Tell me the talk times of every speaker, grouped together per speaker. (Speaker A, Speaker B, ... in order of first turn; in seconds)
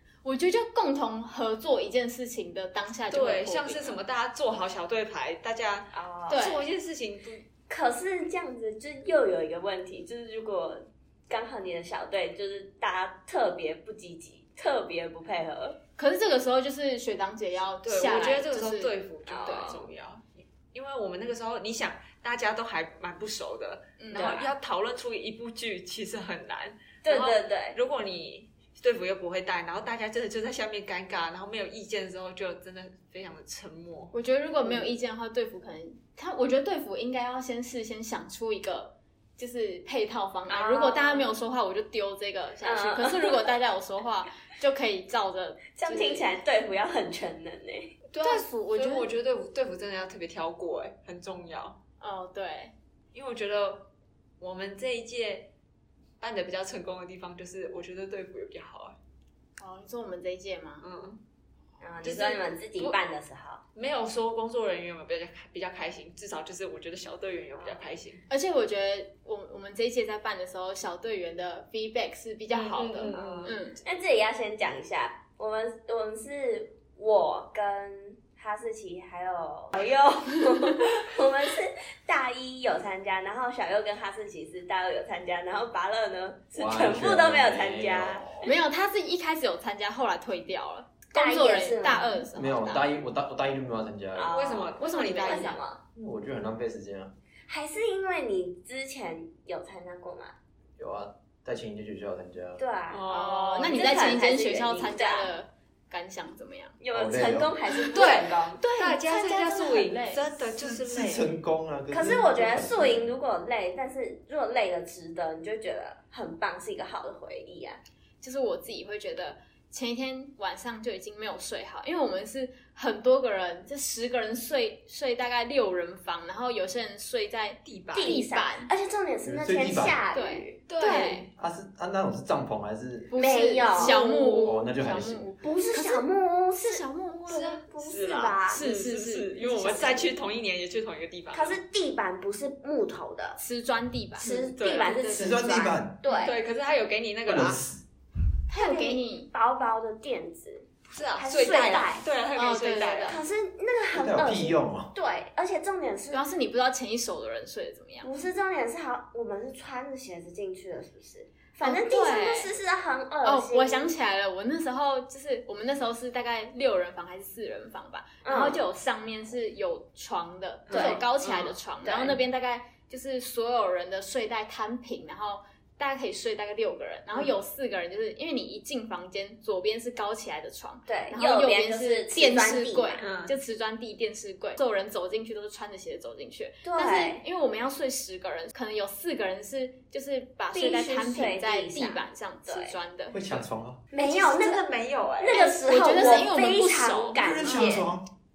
Speaker A: 0.2-4.0, 6.3-6.7, 16.0-18.9, 19.4-19.7, 24.0-24.4, 34.1-46.4, 48.2-49.1, 52.0-52.7, 59.6-60.9, 68.3-73.8, 88.4-92.9, 94.8-95.6, 103.1-106.8, 107.7-110.8, 118.2-128.7, 130.1-131.3, 133.1-136.1, 136.6-137.5, 138.5-140.1, 143.4-146.3, 148.5-149.3, 152.3-153.2, 156.1-158.1, 161.6-162.5, 163.2-193.4, 195.3-197.2
Speaker B: 3.1-7.4, 17.8-34.1, 48.1-51.8, 53.1-53.9, 54.4-55.5, 56.2-59.0, 60.8-61.2, 62.0-63.0, 63.7-68.2, 72.5-73.6, 94.3-95.6, 102.9-103.8, 107.9-111.3, 127.6-128.1, 130.7-131.2, 137.3-141.6, 144.2-145.0, 146.1-147.6, 150.9-153.2, 170.7-171.6, 183.0-183.3, 194.0-195.4
Speaker C: 5.9-6.4, 7.7-15.8, 19.2-19.8, 24.1-24.5, 27.0-27.8, 34.6-34.9, 40.5-41.3, 42.6-43.5, 45.8-47.9, 61.8-63.6, 67.6-67.9, 73.1-88.5, 91.1-92.2, 94.1-95.8, 97.5-100.3, 102.6-103.0, 103.6-105.3, 106.8-108.6, 111.9-117.8, 127.9-130.6, 133.1-134.5, 135.4-138.6, 141.3-143.4, 144.2-146.3, 148.5-152.0, 153.0-156.2, 158.0-163.9, 168.2-168.6, 170.7-171.0, 171.8-172.2, 180.9-183.1, 186.6-187.2, 190.5-192.7, 193.9-194.6, 195.2-197.9
Speaker D: 86.5-88.5, 92.3-94.4, 96.0-97.1, 100.8-102.6, 106.9-107.5, 110.8-113.1, 129.2-130.0, 131.3-133.1, 134.4-135.3, 145.1-146.0, 147.2-147.8, 153.9-154.9, 193.1-193.8, 197.2-198.1